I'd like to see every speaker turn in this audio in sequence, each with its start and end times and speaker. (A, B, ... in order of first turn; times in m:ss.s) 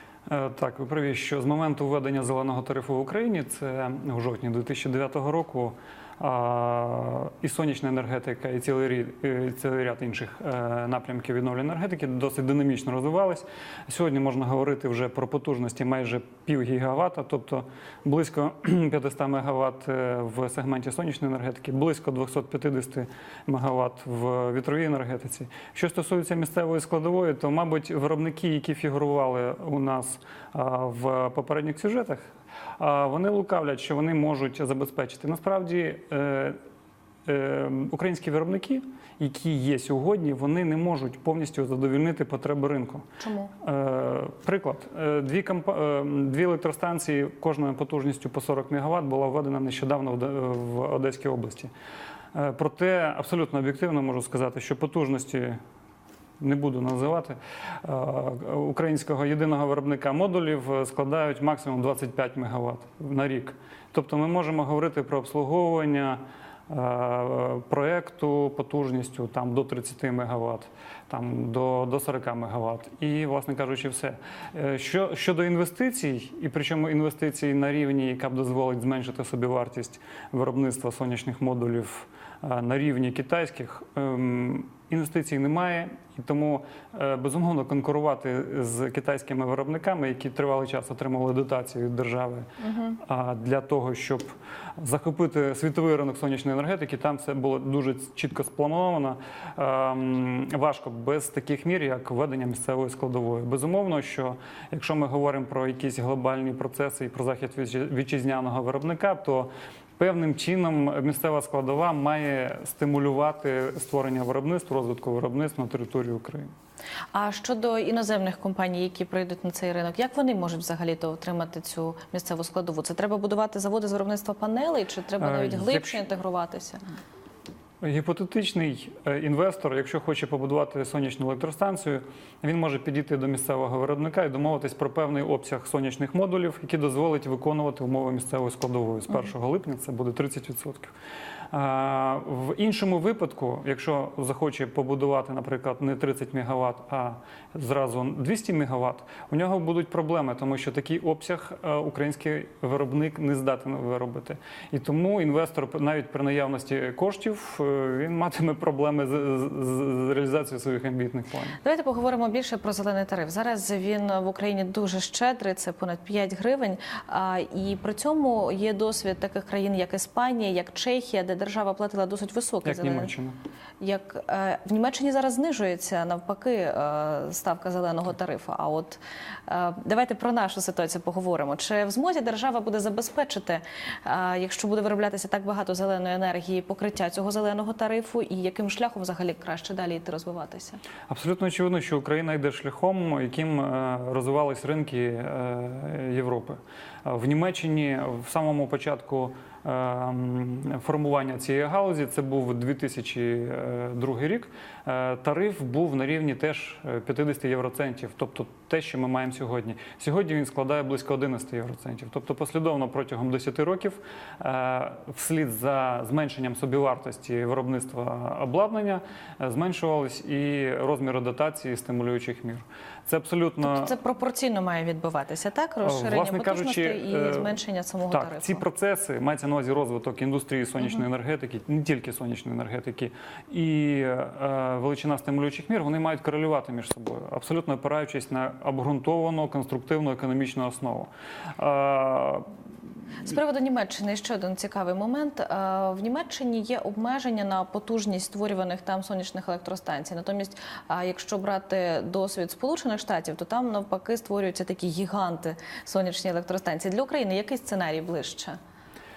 0:00.3-0:32.3 A
0:32.8-0:36.6 A
0:37.3-0:43.0 A
0:43.2-0:43.5 B
0:43.6-0:51.7 A
0:52.3-0:55.6 A
0:56.4-1:32.5 A
1:32.6-1:33.0 B
1:33.0-1:56.5 A
1:57.1-2:06.8 B
2:05.2-2:06.0 A
2:07.8-2:20.9 A
2:21.5-2:41.6 A
2:41.6-2:53.1 B
2:52.6-2:53.4 A
2:53.8-3:10.8 B
3:11.1-3:43.9 A
3:43.6-3:48.6 B
3:45.8-3:47.5 A
3:48.1-4:02.5 A
4:03.2-4:18.6 B